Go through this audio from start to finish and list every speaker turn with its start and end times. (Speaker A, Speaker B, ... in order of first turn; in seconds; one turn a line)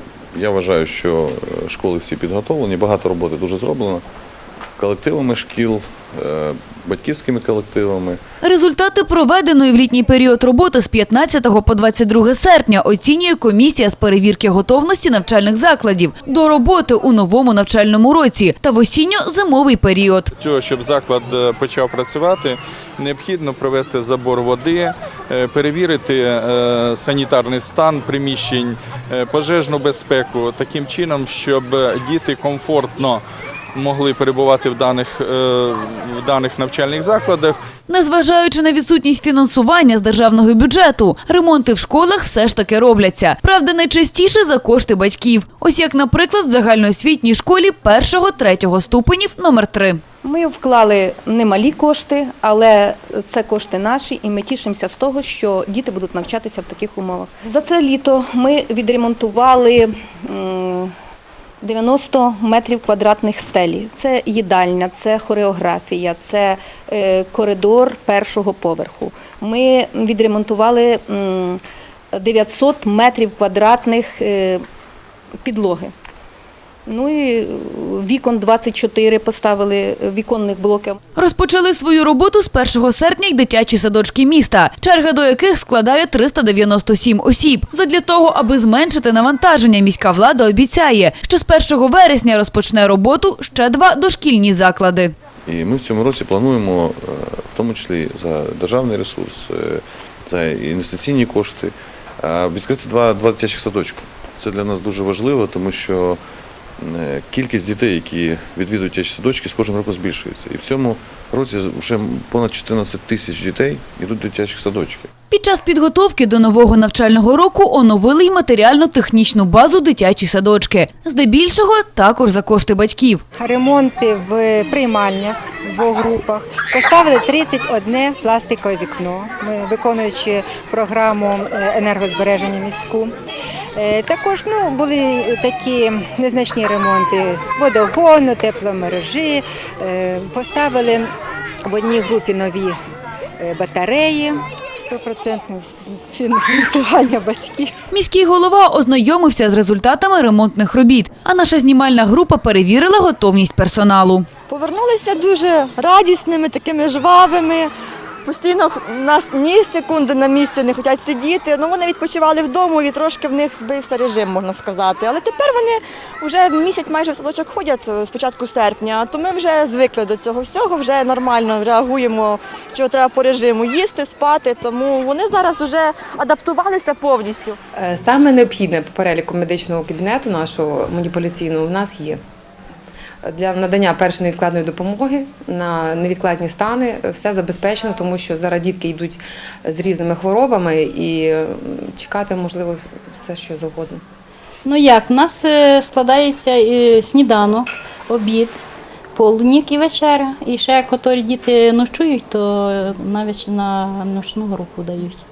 Speaker A: 0.3-4.0
Speaker A: 4.8-8.2
Speaker B: 8.4-20.3
Speaker C: 20.4-33.2
Speaker C: 33.8-37.6
Speaker B: 37.9-50.0
Speaker D: 50.2-60.9
Speaker D: 61.6-71.6
Speaker D: 72.1-74.6
Speaker D: 75.4-75.9
Speaker D: 76.9-81.0
Speaker B: 81.2-95.1
Speaker A: 95.5-106.2
Speaker A: 106.8-115.1
Speaker B: 115.3-123.2
Speaker E: 123.4-133.1
Speaker E: 133.8-141.1
Speaker E: 141.7-142.8
Speaker E: 143.4-147.7
Speaker B: 147.9-154.3
Speaker F: 154.5-157.7
Speaker F: 158.2-177.6
Speaker G: 177.8-182.2
Speaker G: 183.2-194.0
Speaker H: 194.7-198.6
Speaker H: 199.2-205.2